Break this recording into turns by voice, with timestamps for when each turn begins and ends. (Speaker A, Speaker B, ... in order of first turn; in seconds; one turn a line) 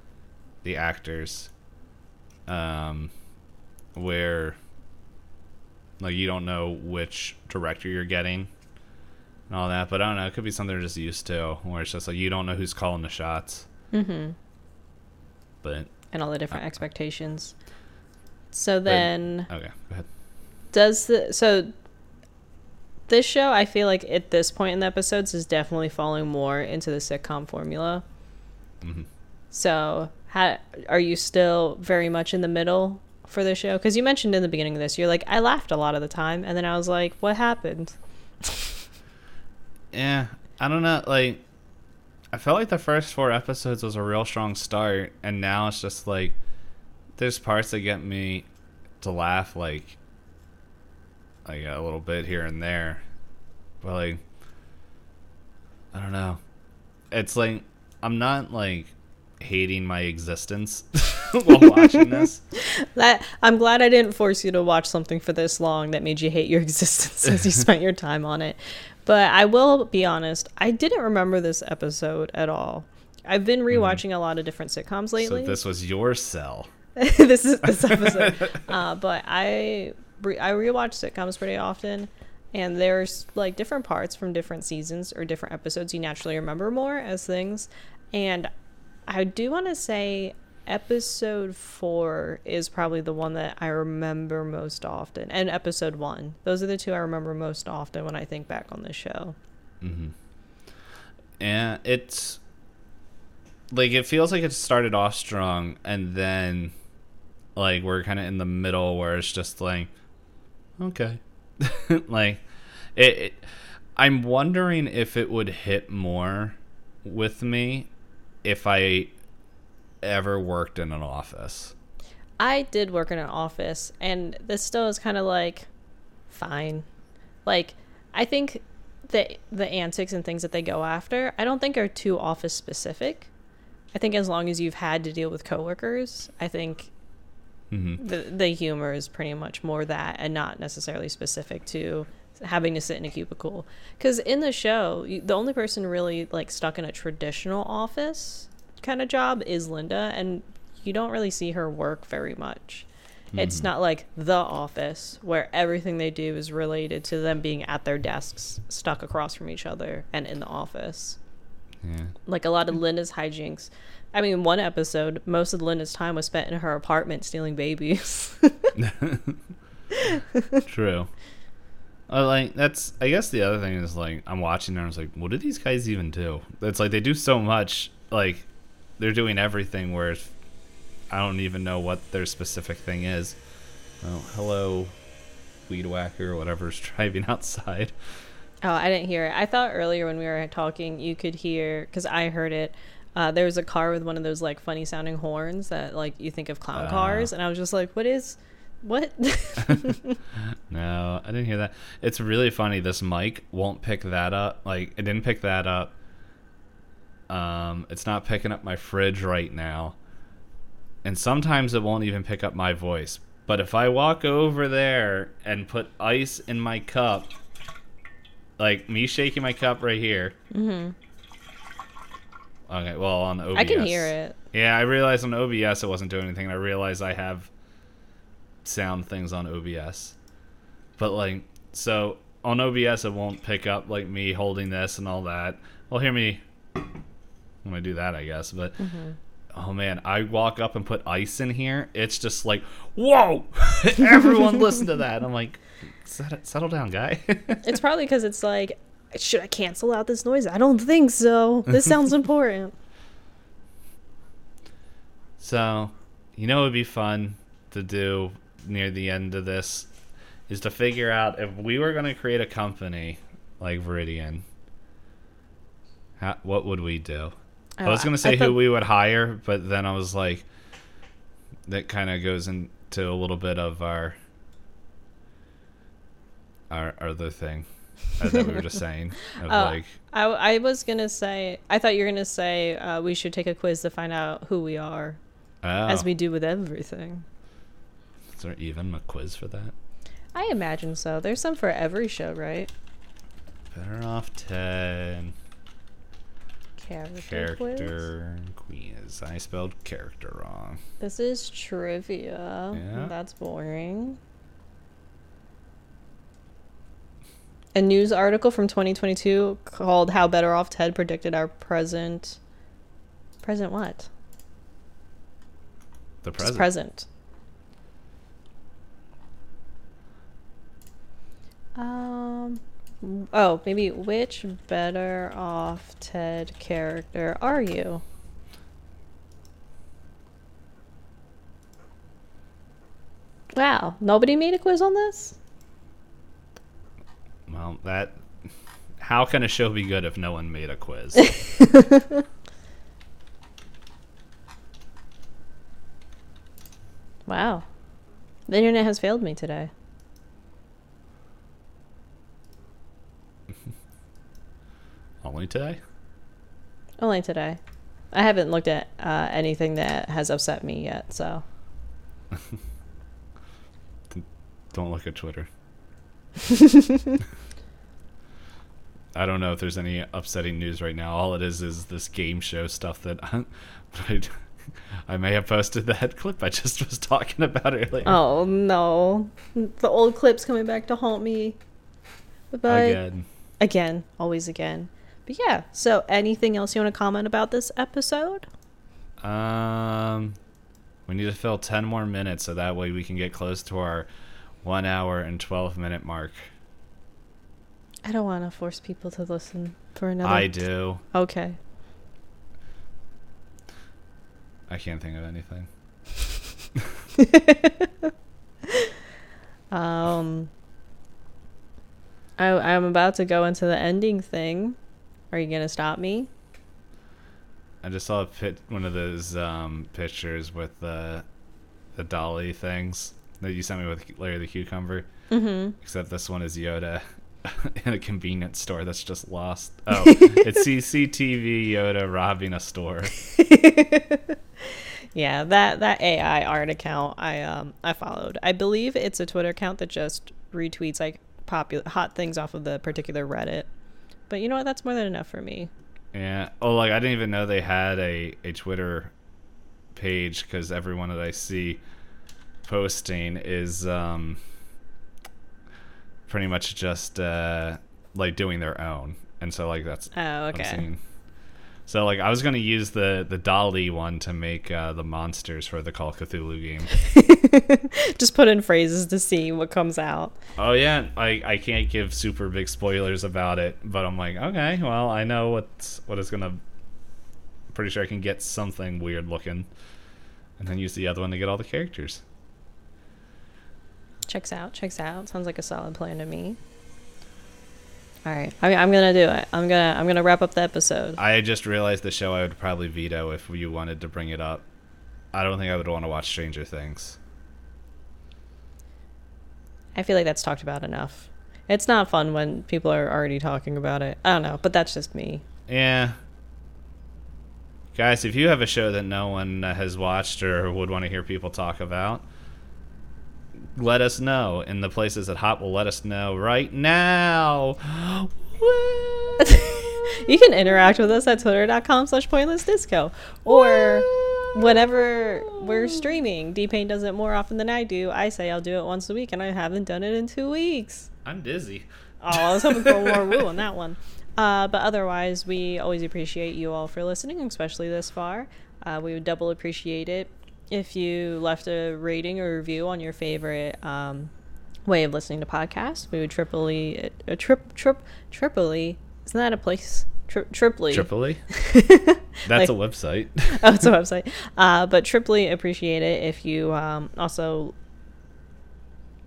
Speaker A: 0.6-1.5
Speaker A: 2.5-3.1
Speaker A: 4.0-4.6
Speaker A: 6.0-8.5
Speaker A: 9.5-13.7
Speaker B: 13.9-14.4
Speaker A: 15.6-15.9
Speaker B: 16.1-17.6
Speaker B: 18.5-19.5
Speaker A: 18.9-20.1
Speaker B: 20.7-21.7
Speaker B: 23.1-28.0
Speaker A: 28.8-29.1
Speaker B: 29.5-38.8
Speaker A: 39.9-41.4
Speaker A: 42.3-46.4
Speaker A: 47.2-48.5
Speaker A: 49.0-50.0
Speaker A: 51.5-53.0
Speaker A: 53.8-54.2
Speaker A: 55.9-56.4
Speaker A: 57.1-62.4
Speaker B: 61.8-75.6
Speaker A: 73.7-74.0
Speaker A: 75.2-76.7
Speaker B: 77.0-88.5
Speaker A: 77.9-78.5
Speaker B: 89.1-99.4
Speaker A: 99.8-100.1
Speaker A: 101.4-102.4
Speaker A: 103.7-106.7
Speaker A: 107.6-109.9
Speaker A: 110.8-112.4
Speaker A: 113.0-113.5
Speaker A: 114.0-117.9
Speaker A: 118.4-119.1
Speaker A: 120.0-121.7
Speaker B: 122.4-125.7
Speaker B: 126.3-126.9
Speaker B: 127.5-133.3
Speaker B: 133.9-136.9
Speaker A: 137.7-138.0
Speaker B: 138.0-161.2
Speaker A: 153.3-153.7
Speaker A: 161.8-162.2
Speaker B: 162.3-168.7
Speaker A: 168.8-169.4
Speaker B: 169.9-170.6
Speaker A: 170.7-171.1
Speaker A: 172.1-178.5
Speaker A: 179.0-180.3
Speaker A: 181.1-183.4
Speaker A: 184.0-184.9
Speaker A: 185.7-187.9
Speaker B: 188.6-200.2
Speaker A: 196.8-197.3
Speaker A: 200.7-205.9
Speaker A: 207.3-210.0
Speaker A: 211.0-217.3
Speaker A: 218.6-220.4
Speaker B: 220.5-220.9
Speaker A: 222.7-227.5
Speaker B: 223.6-224.4
Speaker A: 228.7-230.2
Speaker A: 231.0-236.4
Speaker A: 237.6-238.8
Speaker B: 238.8-239.2
Speaker A: 239.6-247.7
Speaker B: 247.6-252.8
Speaker A: 255.4-259.9
Speaker A: 260.5-264.4
Speaker A: 266.2-270.5
Speaker B: 267.8-268.6
Speaker A: 271.7-274.2
Speaker A: 276.7-280.0
Speaker B: 279.4-285.2
Speaker A: 285.6-286.1
Speaker B: 285.9-287.3
Speaker A: 288.3-289.7
Speaker B: 290.3-292.7
Speaker A: 293.7-295.3
Speaker B: 296.8-298.0
Speaker A: 297.2-300.8
Speaker B: 301.0-304.2
Speaker A: 302.7-303.1
Speaker B: 307.7-312.4
Speaker B: 313.4-314.1
Speaker A: 316.2-316.7
Speaker B: 316.4-317.1
Speaker B: 321.8-328.0
Speaker B: 333.6-335.4
Speaker A: 337.5-338.2
Speaker A: 339.0-341.4
Speaker B: 341.3-342.2
Speaker B: 347.3-347.7
Speaker B: 348.5-349.7
Speaker A: 355.2-355.8
Speaker B: 357.0-357.6
Speaker B: 358.1-361.4
Speaker A: 364.1-365.5
Speaker B: 366.5-367.2
Speaker A: 369.1-374.4
Speaker A: 375.1-378.2
Speaker B: 378.1-381.6
Speaker B: 382.5-383.0
Speaker A: 382.7-383.3
Speaker B: 383.6-388.5
Speaker A: 389.2-390.4
Speaker A: 391.1-394.1
Speaker A: 394.6-396.5
Speaker B: 398.0-401.6
Speaker A: 400.2-401.0
Speaker A: 404.7-405.7
Speaker B: 407.1-408.1
Speaker B: 408.7-408.9
Speaker B: 409.7-410.5
Speaker B: 412.4-414.8
Speaker B: 415.3-416.3
Speaker A: 417.8-421.2
Speaker A: 422.0-425.1
Speaker B: 425.3-425.8
Speaker A: 425.8-433.2
Speaker B: 430.1-430.4
Speaker B: 433.2-443.7
Speaker B: 444.3-445.7
Speaker A: 446.1-449.1
Speaker A: 449.9-451.8
Speaker A: 452.6-454.4
Speaker A: 456.3-461.0
Speaker B: 460.1-460.9
Speaker A: 461.9-466.9
Speaker B: 466.9-470.4
Speaker A: 470.6-476.6
Speaker A: 477.7-479.7
Speaker A: 480.6-482.2
Speaker B: 484.3-486.6
Speaker B: 488.2-491.2
Speaker A: 491.2-494.6
Speaker A: 495.3-497.2
Speaker B: 499.9-505.4
Speaker A: 505.7-506.2
Speaker A: 507.9-512.2
Speaker A: 513.8-520.1
Speaker B: 519.4-531.1
Speaker A: 523.5-526.1
Speaker A: 531.2-533.4
Speaker B: 532.2-544.3
Speaker B: 544.9-552.7
Speaker A: 550.9-551.5
Speaker A: 552.5-553.8
Speaker B: 553.5-557.7